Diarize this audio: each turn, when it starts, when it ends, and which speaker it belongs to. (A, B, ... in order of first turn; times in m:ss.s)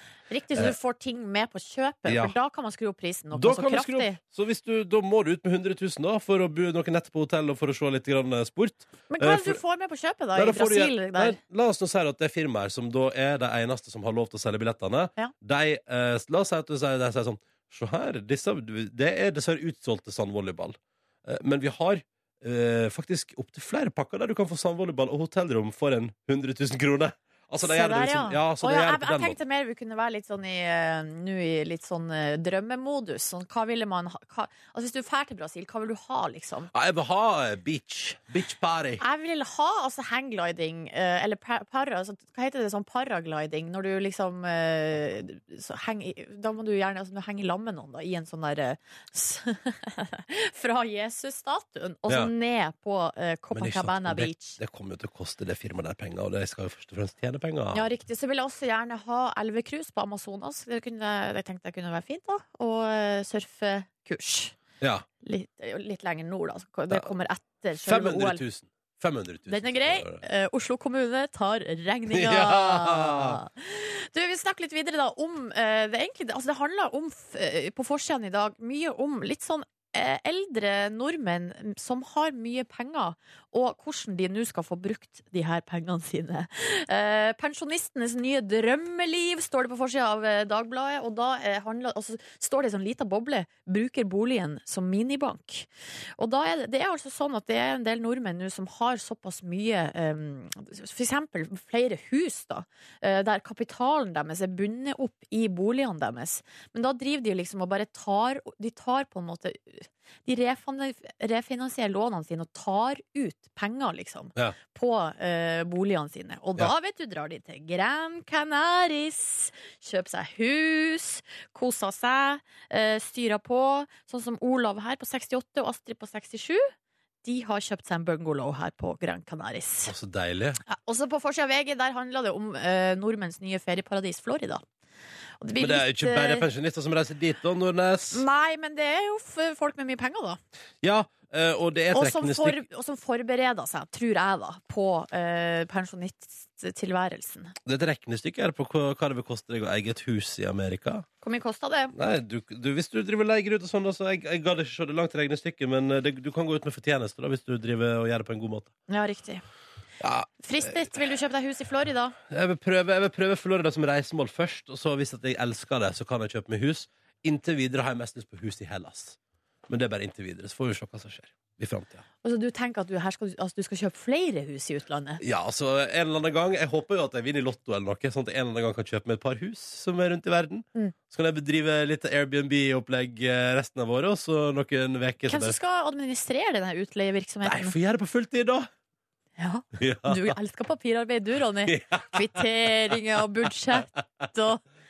0:00.3-0:04.2 A
0:02.0-0:02.4 B
0:03.3-0:09.6 B
0:09.1-0:11.4 A
0:10.3-0:29.4 B
0:27.6-0:36.7 A
0:36.7-0:39.0 B
0:39.0-0:54.6 A
0:53.5-0:57.8 B
0:57.7-1:04.5 A
1:05.2-1:08.4 A
1:07.8-1:10.2 B
1:09.5-1:35.7 A
1:12.1-1:13.4 B
1:36.2-2:06.7 A
2:07.2-2:09.9 A
2:09.9-2:10.6 B
2:10.7-2:14.6 A
2:15.4-2:16.5 A
2:15.6-2:18.2 B
2:18.1-2:20.4 A
2:20.8-2:22.6 B
2:21.9-2:27.5 A
2:27.6-2:31.0 B
2:31.2-2:31.9 A
2:31.9-2:38.7 B
2:38.9-2:39.4 A
2:40.0-2:40.9 B
2:40.4-2:42.1 A
2:42.3-2:49.2 B
2:49.7-2:52.0 B
2:52.2-2:55.2 A
2:55.2-3:05.6 B
3:05.3-3:07.7 A
3:07.4-3:08.7 B
3:09.4-3:14.6 A
3:09.8-3:10.3 B
3:11.7-3:12.9 B